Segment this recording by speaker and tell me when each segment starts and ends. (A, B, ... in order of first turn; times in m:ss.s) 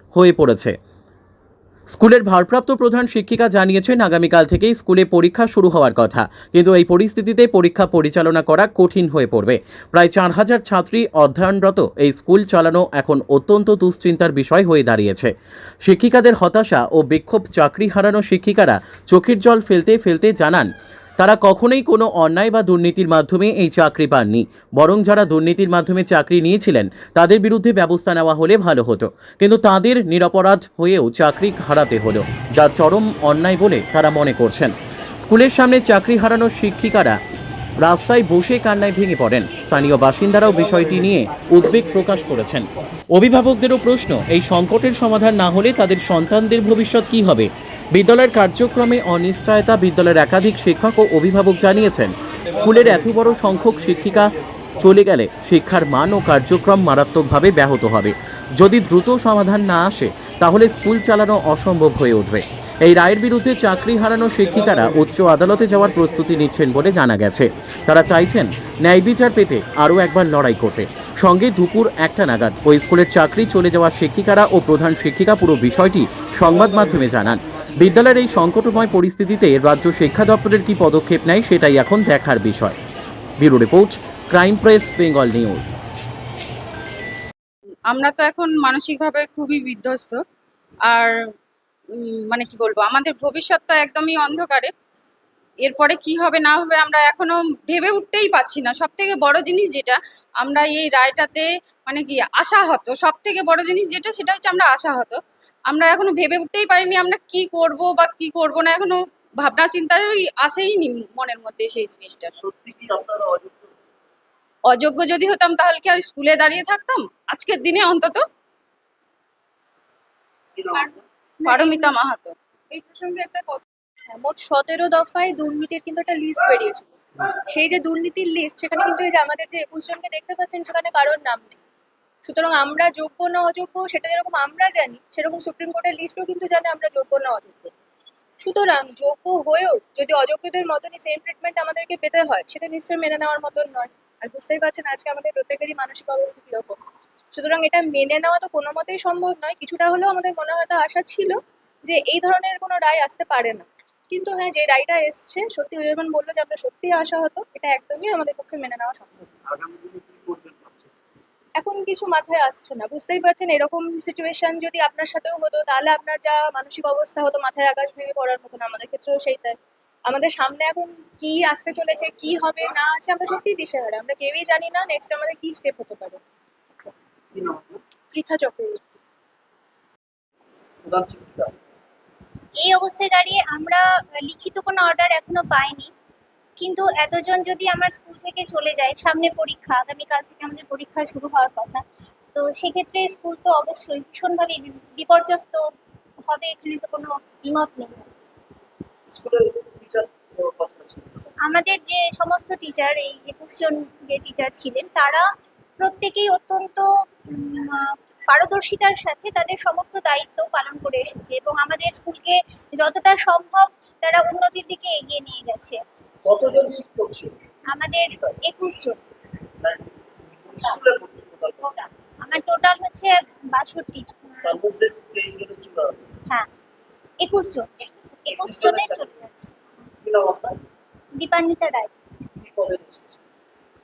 0:00.1-0:00.8 A
0:01.9-0:15.3 A
0:15.8-0:37.2 A
0:37.8-1:22.8 A
1:23.4-1:25.7 A
1:27.9-1:30.2 B
1:30.9-1:31.2 B
1:31.9-1:34.7 B
1:35.6-1:52.3 B
1:52.4-1:53.7 C
1:54.7-1:58.2 B
2:00.6-2:01.0 C
2:00.7-2:02.3 B
2:01.4-2:02.0 D
2:02.7-2:11.6 D
2:12.2-2:17.7 D
2:18.4-2:26.8 D
2:27.3-2:39.3 D
2:39.5-2:40.9 C
2:41.6-2:56.2 D
2:57.3-2:57.8 C
2:58.1-2:59.0 D
3:00.8-3:01.6 C
3:02.6-3:05.9 E
3:06.6-3:11.8 E
3:12.4-3:15.6 E
3:16.3-3:18.1 E
3:19.1-3:21.3 C
3:21.4-3:25.3 E
3:25.8-3:35.8 E
3:36.2-3:37.4 C
3:37.7-3:39.0 E
3:38.1-3:38.4 C
3:39.6-3:41.8 C
3:42.2-3:44.4 E
3:44.4-3:46.0 C
3:47.2-3:47.7 E
3:48.3-3:49.5 E
3:48.3-3:49.1 C
3:50.0-3:50.6 C
3:51.2-3:51.9 E
3:52.4-3:53.2 C